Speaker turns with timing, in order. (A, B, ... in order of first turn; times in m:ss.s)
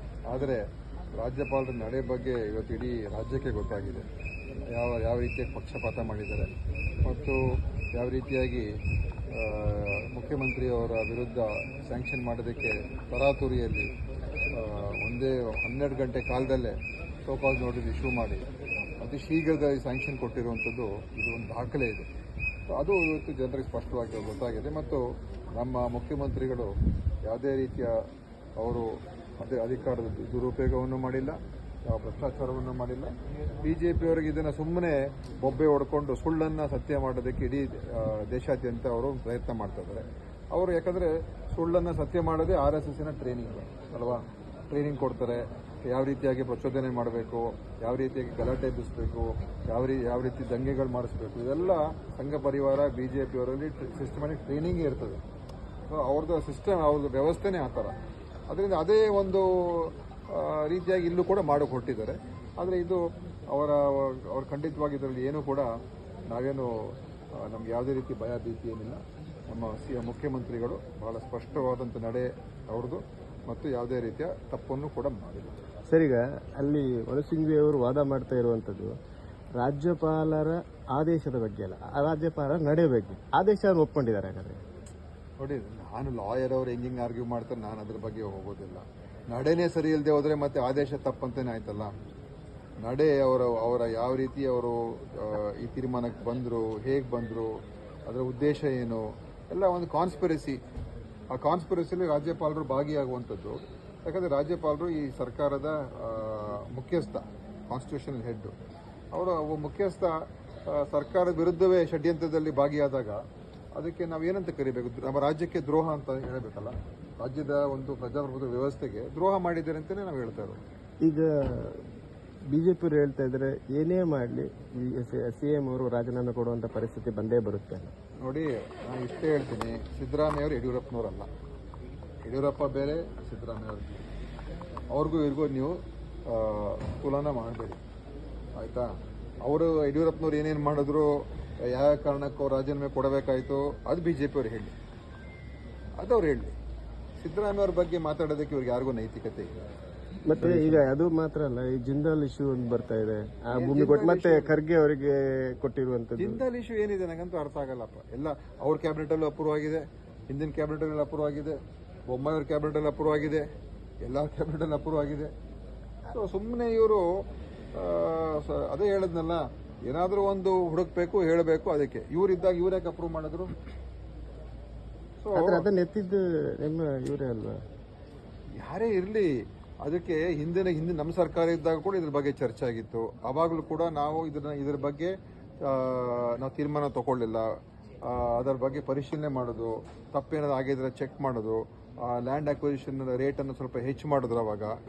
0:00.3-0:00.6 A
0:01.2-0:04.1 A
0:04.7-0:06.5 A
0:07.0-0:07.4 A
0:08.0-0:08.7 A
0:09.3-0:13.9 A
0:14.5-0:18.5 A
0:19.0-0:22.1 A
0:22.7-0:26.7 A
0:27.2-0:28.0 A
0:28.6-0:55.2 A
0:55.9-0:57.9 A
0:58.5-1:05.7 A
1:06.3-1:15.6 A
1:15.9-1:18.9 B
1:19.6-1:24.6 B
1:25.4-1:31.9 A
1:32.8-1:37.5 A
1:38.1-1:40.6 A
1:41.3-1:48.5 A
1:49.1-1:50.1 A
1:50.7-1:53.2 A
1:53.8-2:00.6 A
2:01.0-2:01.8 B
2:02.5-2:07.9 B
2:08.2-2:11.3 A
2:12.2-2:14.0 A
2:14.9-2:17.8 A
2:18.6-2:18.9 A
2:19.4-2:21.1 A
2:21.7-2:24.7 A
2:26.0-2:26.6 A
2:27.2-2:29.5 A
2:30.3-2:36.4 B
2:30.4-2:30.8 A
2:33.5-2:34.5 A
2:36.2-2:41.6 A
2:42.1-2:43.5 A
2:44.0-2:45.3 A
2:46.1-2:47.0 A
2:47.8-2:53.5 A
2:55.2-2:55.7 A
2:55.3-2:57.6 B
2:58.6-2:59.3 A
2:59.8-3:07.5 A
3:08.0-3:14.7 A